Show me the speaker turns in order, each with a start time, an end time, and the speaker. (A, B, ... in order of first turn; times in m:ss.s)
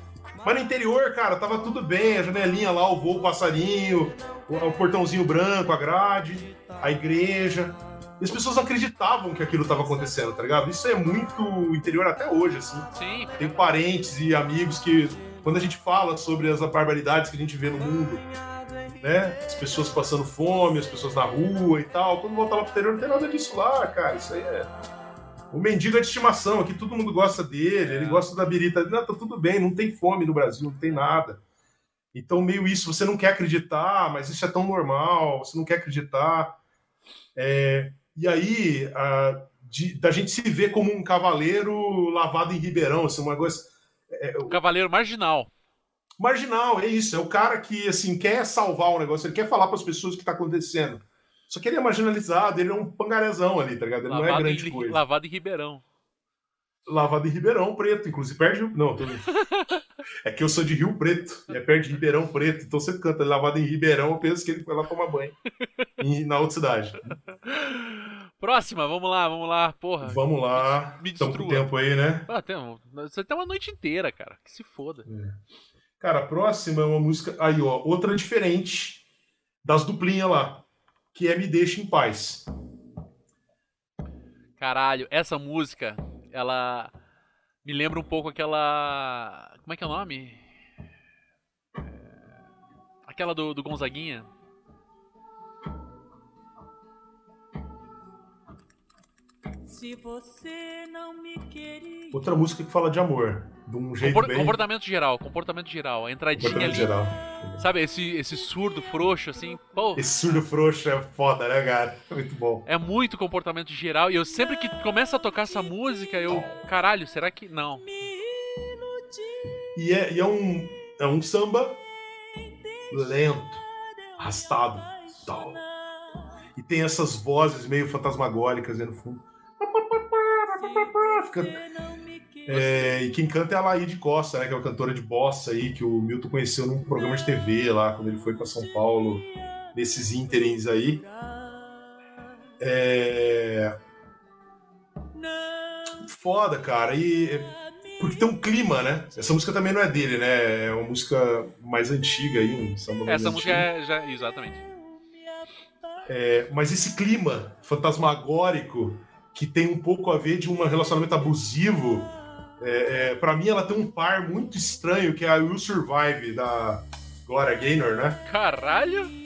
0:00.3-0:00.7 A
0:00.4-0:18.2 B
0:01.6-0:05.3 A
0:06.5-0:07.8 A
0:09.4-0:11.7 A
0:12.8-0:15.8 A
0:12.9-0:13.5 C
0:17.8-0:21.8 A
0:19.0-0:24.7 B
0:23.0-0:23.3 A
0:25.5-0:31.4 B
0:27.8-0:28.3 C
0:32.1-0:36.6 B
0:37.4-0:44.6 B
0:44.4-0:45.5 C
0:46.2-0:55.0 B
0:54.0-0:55.8 C
0:56.8-0:59.3 B
0:59.3-0:59.8 C
1:00.2-1:05.4 B
1:06.0-1:07.1 B
1:07.4-1:11.7 C
1:10.0-1:12.3 B
1:12.2-1:15.1 C
1:15.0-1:15.4 B
1:16.0-1:19.0 B
1:19.6-1:22.4 B
1:24.6-1:26.9 C
1:27.6-1:30.4 C
1:33.0-1:34.3 C
1:39.6-1:42.2 A
1:42.1-1:44.6 B
1:44.0-1:46.9 C
1:46.4-1:47.6 B
1:47.6-1:50.3 C
1:50.0-1:52.6 B
1:52.6-1:58.1 C
1:55.5-1:56.0 A
1:56.3-1:56.6 B
1:58.0-1:59.6 A
1:59.7-2:01.8 B
2:02.3-2:06.2 A
2:02.9-2:03.6 B
2:04.2-2:05.6 B
2:06.6-2:11.6 B
2:10.5-2:12.9 A
2:12.5-2:21.0 B
2:18.8-2:21.9 A
2:22.6-2:23.8 B
2:25.2-2:25.9 A
2:25.9-2:33.7 B
2:27.7-2:28.5 A
2:33.0-2:34.6 C
2:34.6-2:36.1 A
2:36.0-2:48.2 B
2:48.2-2:49.1 C